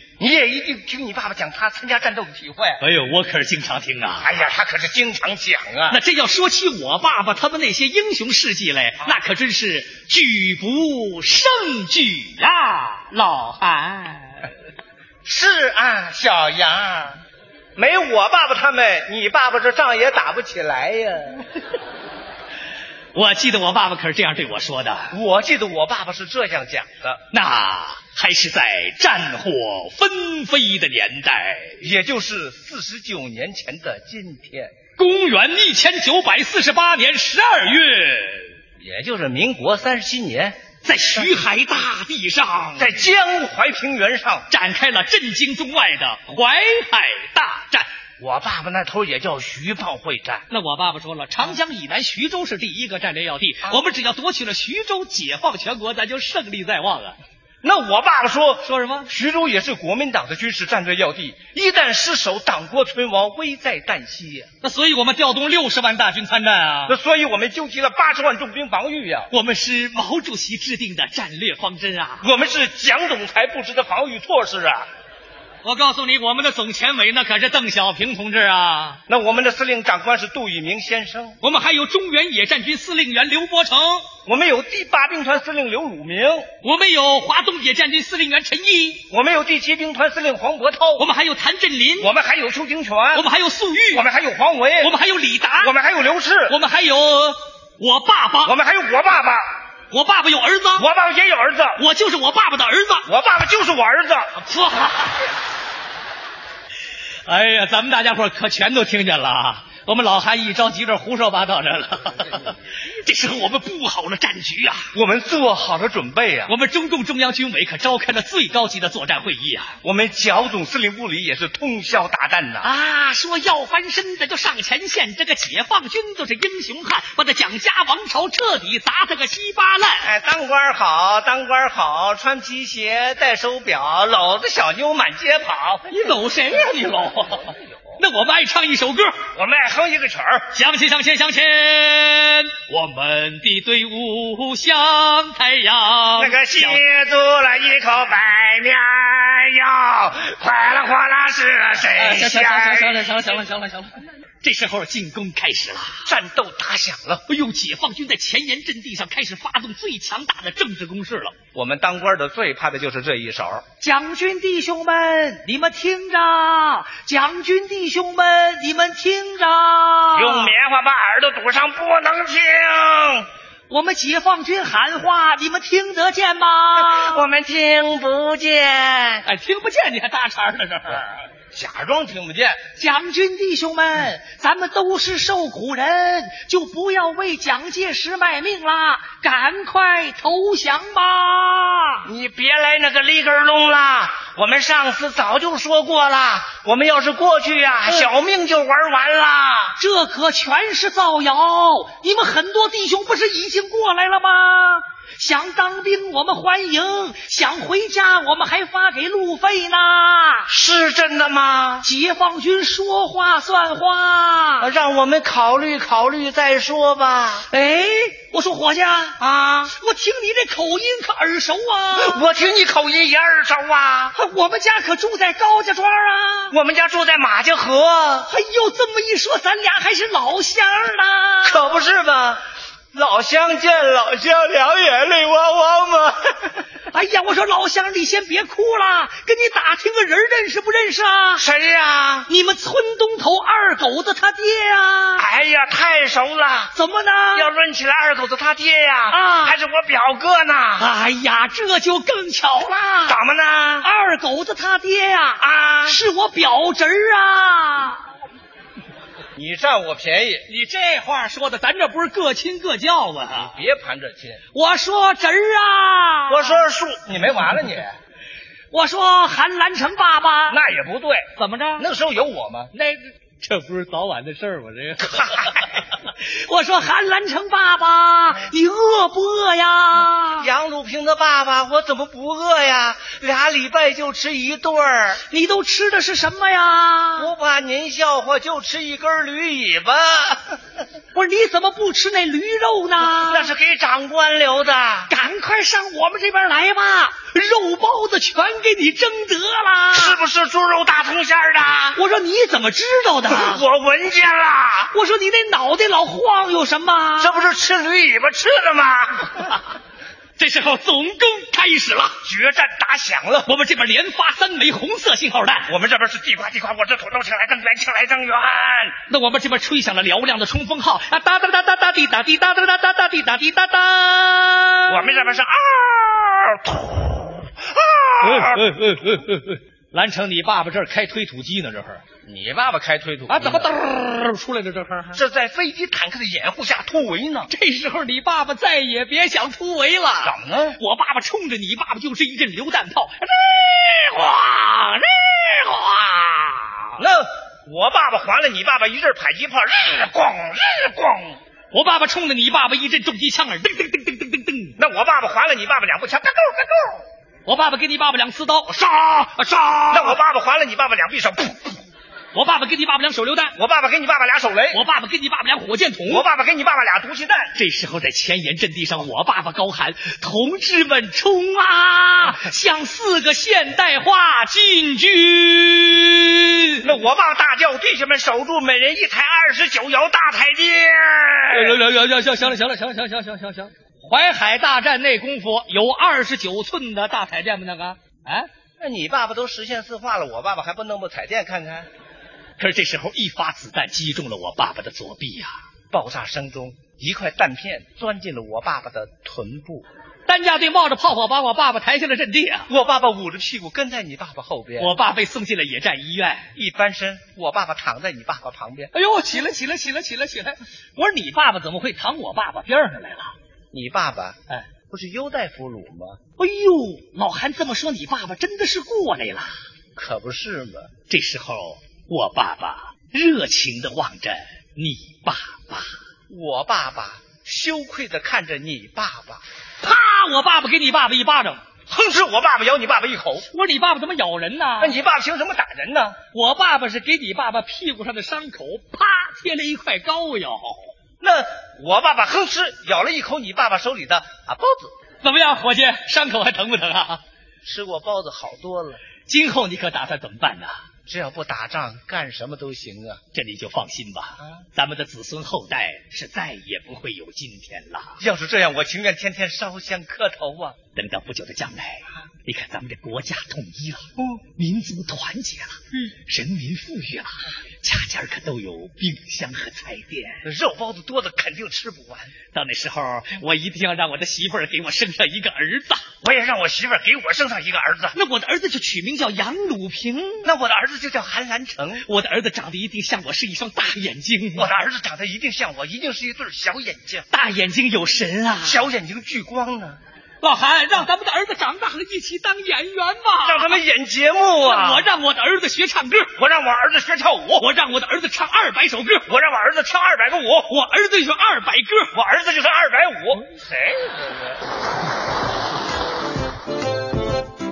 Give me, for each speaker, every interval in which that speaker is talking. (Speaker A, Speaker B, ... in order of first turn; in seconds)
Speaker A: 0.2-2.8, 4.2-6.0, 15.2-17.2, 17.8-21.4, 25.1-27.2, 31.8-34.7, 38.8-40.6, 42.8-44.5, 48.2-50.5, 57.6-64.5, 66.9-69.3, 72.2-74.9, 79.1-81.4, 84.2-86.5, 89.1-91.0, 92.0-93.2, 93.9-94.9, 95.6-96.5, 98.4-99.4, 100.8-101.8, 103.1-104.4, 114.9-116.5, 119.8-122.7, 130.0-135.8, 139.3-140.5, 146.2-153.1, 156.1-157.2, 161.5-163.6, 170.2-173.3, 176.8-179.3, 181.5-182.6, 192.1-199.8, 210.5-211.9, 214.6-217.4, 219.2-219.7, 221.9-224.2, 226.5-228.3, 231.4-232.4, 232.9-236.6, 241.4-242.3, 245.2-246.7, 247.3-250.9, 253.1-253.8, 255.4-256.0, 259.4-260.5, 263.3-264.4, 266.3-267.9, 270.5-272.7, 275.0-275.7, 280.4-285.2, 287.2-290.6, 293.0-295.1, 299.9-302.0, 303.3-304.9, 307.2-309.6, 312.2-313.5, 315.7-319.0, 324.9-328.6, 332.2-333.7, 335.1-337.5, 340.2-340.8, 347.0-351.4, 354.8-357.0, 359.9-361.8, 363.6-364.8, 366.1-367.5, 376.8-381.8, 388.8-391.9, 395.9-399.9, 402.7-404.9, 406.5-408.9, 413.7-414.4, 414.9-416.2, 419.9-420.9, 426.3-429.4, 431.9-433.4, 434.8-436.2, 441.2-444.9, 447.6-449.0, 451.1-453.2, 454.4-454.6, 458.2-460.8, 464.2-464.4, 470.4-472.3, 476.2-478.1, 480.4-482.1, 484.5-487.3, 488.6-490.0, 493.4-495.1, 496.3-497.6, 499.3-500.7, 502.1-504.4
Speaker B: 2.8-4.3, 5.9-14.5, 23.1-25.1, 27.3-31.8, 35.0-38.5, 40.8-43.1, 44.5-47.9, 50.5-57.2, 58.6-59.1, 64.6-67.0, 69.3-72.2, 75.6-79.0, 81.4-84.1, 86.6-89.0, 91.0-92.1, 93.1-94.0, 94.8-95.7, 96.5-98.5, 99.9-100.9, 101.8-103.1, 104.4-105.3, 107.3-114.9, 116.5-119.8, 122.6-130.1, 135.9-139.1, 140.5-146.9, 151.9-156.0, 157.3-161.3, 163.8-170.5, 173.7-177.2, 179.2-181.2, 182.8-192.1, 199.8-210.5, 211.8-214.7, 217.5-222.2, 224.1-226.5, 228.2-231.6, 236.9-241.4, 242.3-245.3, 246.7-247.5, 249.1-249.6, 250.8-253.2, 253.8-258.1, 260.5-263.6, 264.5-266.6, 268.7-270.6, 271.4-271.9, 272.7-280.5, 285.3-287.3, 291.1-293.5, 295.1-300.2, 301.9-303.6, 304.9-307.4, 310.4-312.2, 313.4-315.7, 319.1-325.1, 328.2-332.0, 333.3-335.2, 337.5-346.9, 351.7-354.8, 357.4-360.2, 362.3-363.5, 364.7-366.2, 367.5-376.9, 381.5-388.5, 392.6-395.5, 400.3-402.7, 404.8-406.5, 408.9-413.3, 416.4-419.6, 421.1-426.0, 429.8-431.6, 433.5-434.9, 436.3-440.8, 445.2-447.2, 449.3-450.7, 453.3-458.2, 460.9-470.4, 472.5-476.1, 478.1-480.5, 482.0-484.7, 487.3-488.9, 490.4-493.8, 494.6-496.3, 497.5-499.3, 500.7-502.1